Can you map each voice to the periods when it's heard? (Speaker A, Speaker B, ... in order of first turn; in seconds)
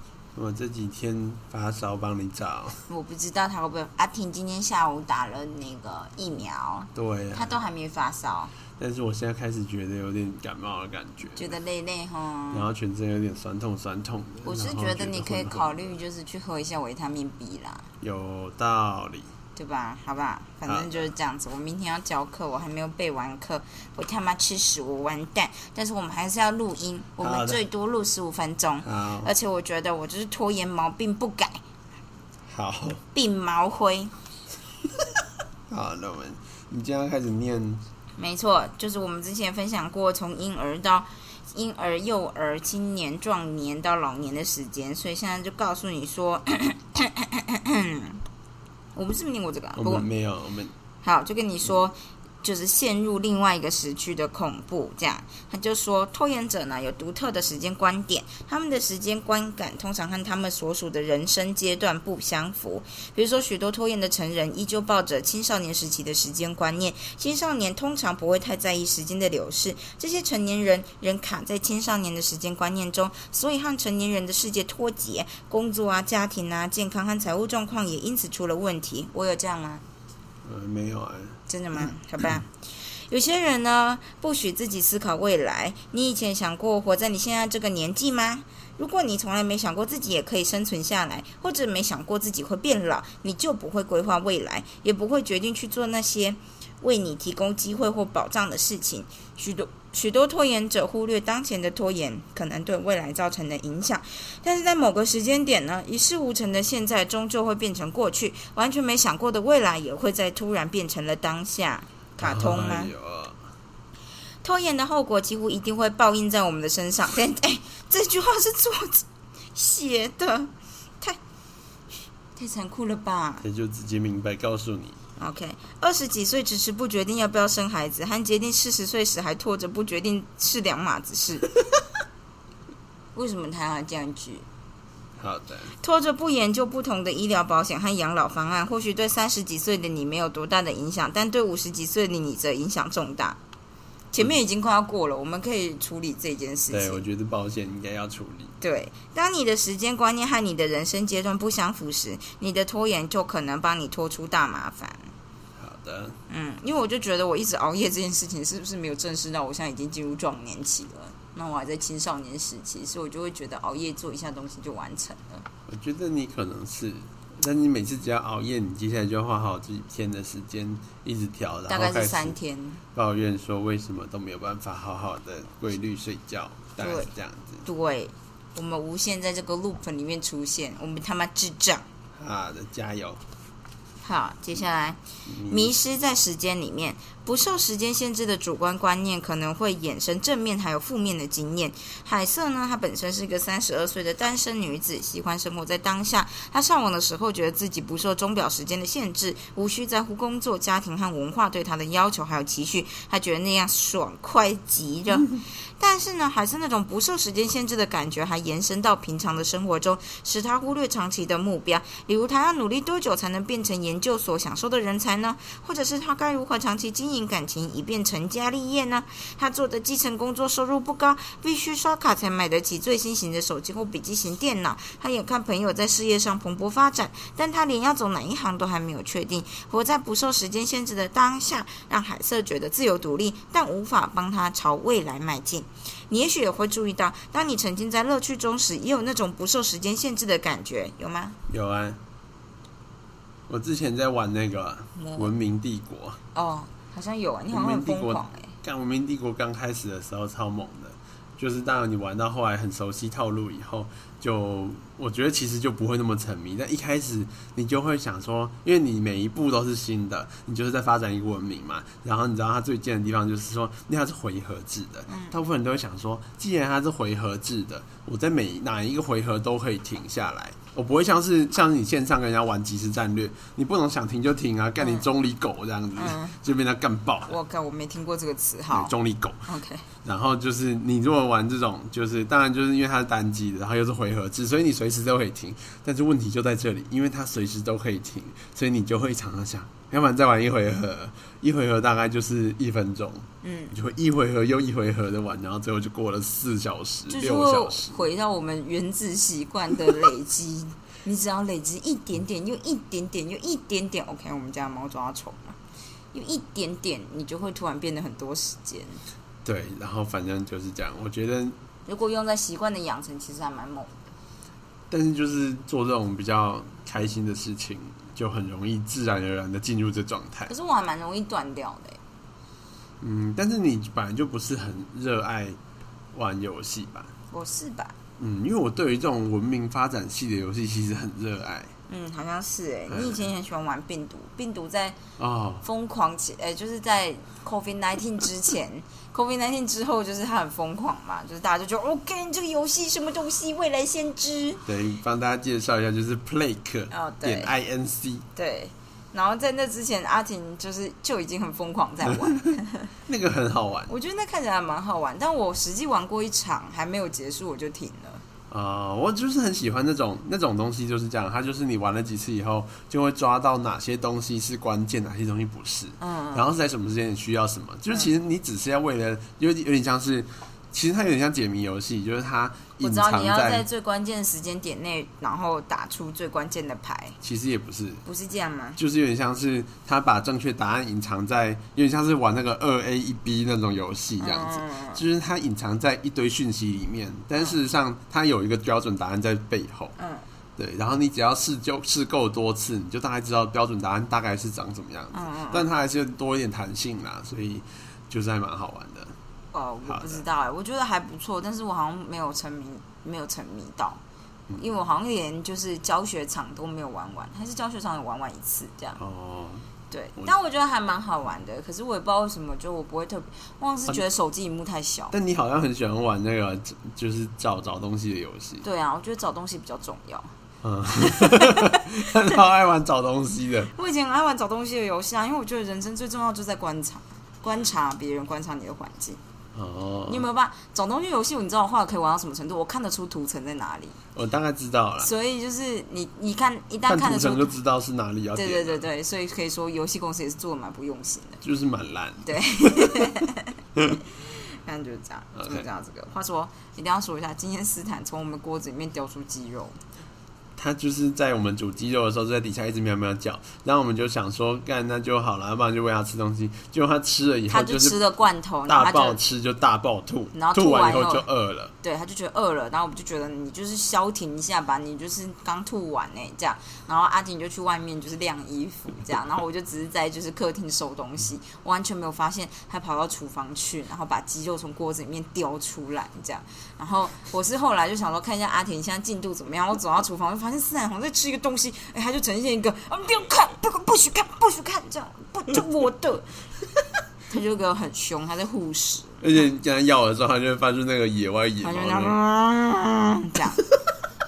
Speaker A: 0.3-2.8, 7.0-7.6, 8.8-11.6, 12.5-16.0, 18.0-19.3, 20.7-21.1, 27.2-27.6, 28.8-29.3, 32.5-33.0, 35.7-37.8, 49.8-50.7, 80.5-81.4, 112.2-113.4, 123.4-125.0, 135.2-135.7, 146.7-148.5, 155.6-156.2, 165.7-172.4, 172.9-177.7, 182.2-183.2, 185.3-185.7, 241.5-242.0, 243.5-246.2, 247.5-277.4, 278.7-279.4, 280.1-298.1, 309.4-311.6, 314.9-320.5, 323.0-325.6, 326.1-327.1, 328.2-331.7, 332.9-333.3, 335.2-335.6, 344.7-348.2, 353.1-353.9, 358.5-373.6, 377.2-378.0, 378.8-389.9, 390.6-399.1, 399.9-400.2, 409.0-410.3, 415.1-418.6, 420.6-423.7, 429.6-430.3, 434.1-435.1, 436.9-438.8, 441.4-443.1, 445.4-445.6, 450.6-458.0, 458.7-461.7, 489.2-492.2
Speaker B: 2.9-8.6, 11.4-12.7, 14.4-17.9, 19.6-31.6, 33.1-34.1, 38.2-48.2, 49.0-50.1, 51.0-79.8, 81.5-112.9, 114.4-119.0, 119.5-121.2, 122.3-123.5, 125.2-131.6, 133.2-134.4, 135.8-143.4, 144.1-147.0, 148.6-155.1, 156.3-165.5, 171.7-172.8, 176.8-177.1, 177.7-181.9, 184.0-241.4, 245.0-245.3, 246.3-248.5, 265.1-265.4, 274.8-275.1, 276.0-276.4, 277.3-279.9, 293.4-293.8, 297.1-305.6, 306.1-309.0, 311.9-314.1, 320.5-322.0, 327.3-327.9, 331.9-335.0, 335.6-344.6, 346.9-347.5, 348.4-352.9, 353.9-358.2, 366.0-366.5, 372.8-377.2, 378.1-378.8, 384.2-385.0, 390.0-390.3, 395.1-395.7, 399.5-404.0, 404.5-409.0, 409.9-415.1, 418.6-420.3, 421.0-422.0, 423.7-429.2, 430.1-434.0, 435.0-437.5, 438.4-441.4, 442.3-449.8, 457.5-459.2, 460.3-461.3, 461.8-486.4, 487.3-489.2, 491.6-493.7